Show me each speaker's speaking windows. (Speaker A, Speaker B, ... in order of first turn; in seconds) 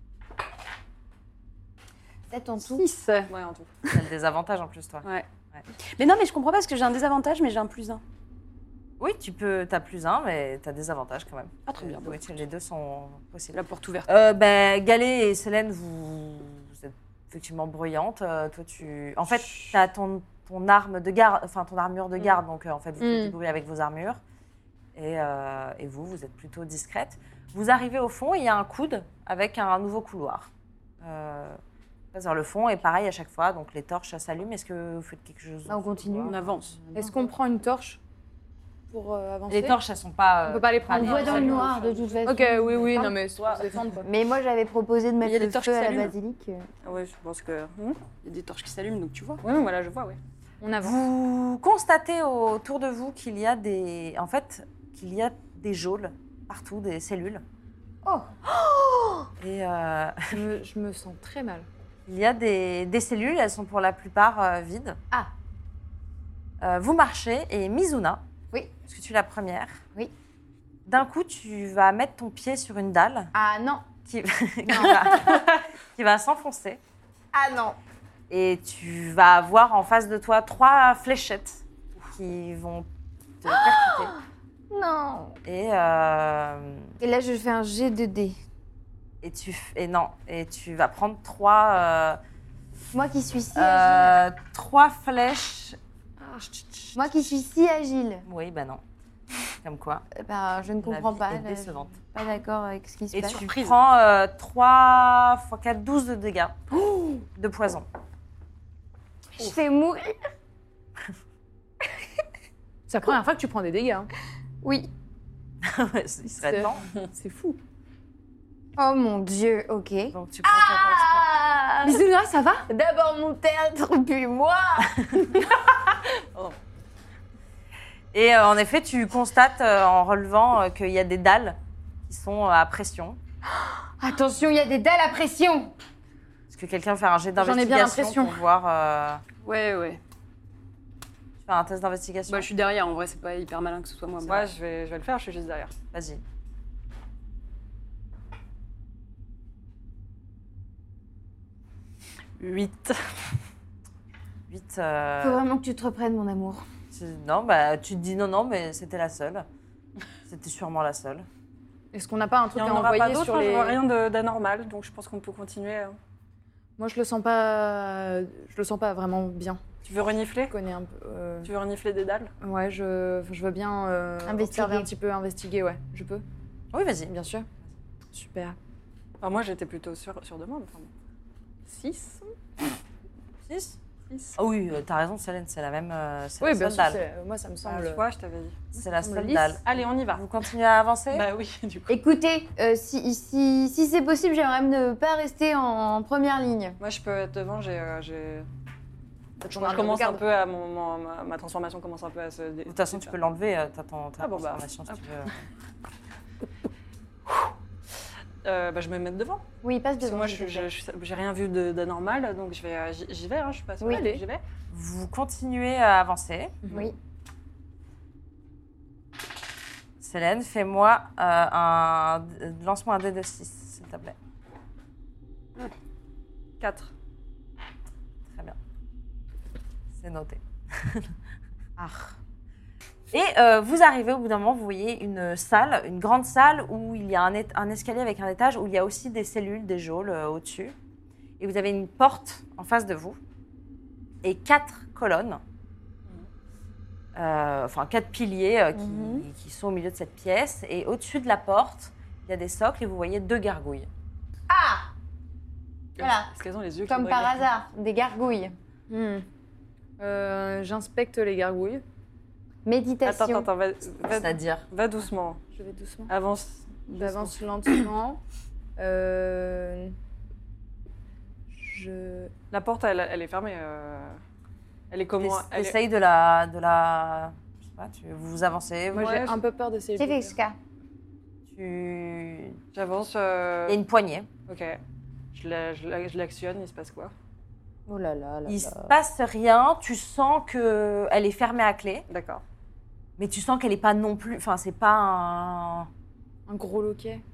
Speaker A: 2.3-2.8, 35.7-37.1, 41.0-43.1, 44.0-46.7, 58.0-59.3, 73.3-73.9, 74.7-75.4, 77.3-77.8, 83.5-84.2, 84.7-85.4, 87.0-88.4, 92.9-94.2, 97.0-98.2, 100.1-103.5, 109.4-110.2, 114.6-114.9, 118.8-122.0, 122.7-125.3, 134.0-135.7, 155.2-156.7, 174.2-174.9, 191.9-196.8, 209.6-210.7, 216.7-216.9, 248.7-249.2, 254.5-254.9, 256.0-256.3, 256.9-258.5, 262.6-263.5, 280.0-280.6, 287.9-288.9
Speaker B: 2.7-3.3, 23.0-23.4, 36.9-38.0, 38.9-39.8, 40.5-41.6, 42.2-44.1, 50.6-51.0, 60.3-61.7, 112.9-114.1, 116.3-117.6, 121.8-122.7, 137.4-138.4, 161.9-163.8, 166.8-169.6, 170.5-171.5, 172.4-176.2, 177.1-177.5, 178.1-178.6, 181.7-182.3, 186.4-188.0, 188.7-189.6, 199.4-200.2, 213.9-214.2, 258.9-259.2, 260.0-261.8, 265.6-266.1, 266.9-268.2, 268.8-269.9, 271.5-272.3, 278.9-280.3, 296.5-297.2
Speaker C: 3.3-3.7, 41.0-43.6, 46.8-48.0, 49.4-50.2, 144.2-145.7, 152.4-153.3, 162.6-166.0, 169.8-170.5, 171.4-172.3, 179.2-180.9, 187.6-188.6, 189.6-190.3, 191.1-192.0, 196.8-198.5, 199.4-203.2, 204.2-205.3, 208.4-209.4, 210.0-214.4, 226.6-226.9, 256.0-257.5, 263.0-265.4, 266.1-267.4, 272.5-274.2, 274.9-275.8, 278.9-279.3, 282.7-283.8, 284.5-284.8, 285.3-287.1, 292.1-292.4
Speaker D: 3.9-5.6, 9.0-24.2, 24.9-30.5, 31.0-31.6, 32.1-36.4, 39.5-41.7, 50.8-57.4, 59.4-60.4, 62.0-65.0, 66.6-68.2, 68.8-69.8, 70.8-73.3, 74.0-76.8, 78.3-82.9, 83.4-84.1, 85.4-86.9, 89.2-92.2, 93.5-95.8, 96.4-97.3, 98.2-98.8, 99.6-100.0, 100.8-102.0, 103.1-106.6, 107.3-107.9, 115.6-116.8, 120.1-121.2, 128.1-133.2, 136.5-139.2, 141.4-142.5, 145.9-146.2, 154.5-155.4, 156.9-159.5, 160.3-161.3, 176.7-177.2, 183.5-183.8, 184.3-187.0, 188.7-191.3, 202.7-205.3, 214.7-216.6, 220.0-224.1, 228.3-228.6, 229.9-231.1, 231.8-232.2, 233.1-240.7, 241.4-243.2, 244.2-245.4, 247.1-253.9, 264.1-264.6, 275.2-279.3, 281.5-282.6, 283.6-284.3, 288.4-292.0, 293.2-295.9
Speaker E: 5.8-8.0, 11.7-12.3, 13.5-14.1, 36.2-36.8, 45.2-46.1, 48.2-49.4, 139.4-140.0, 142.3-144.4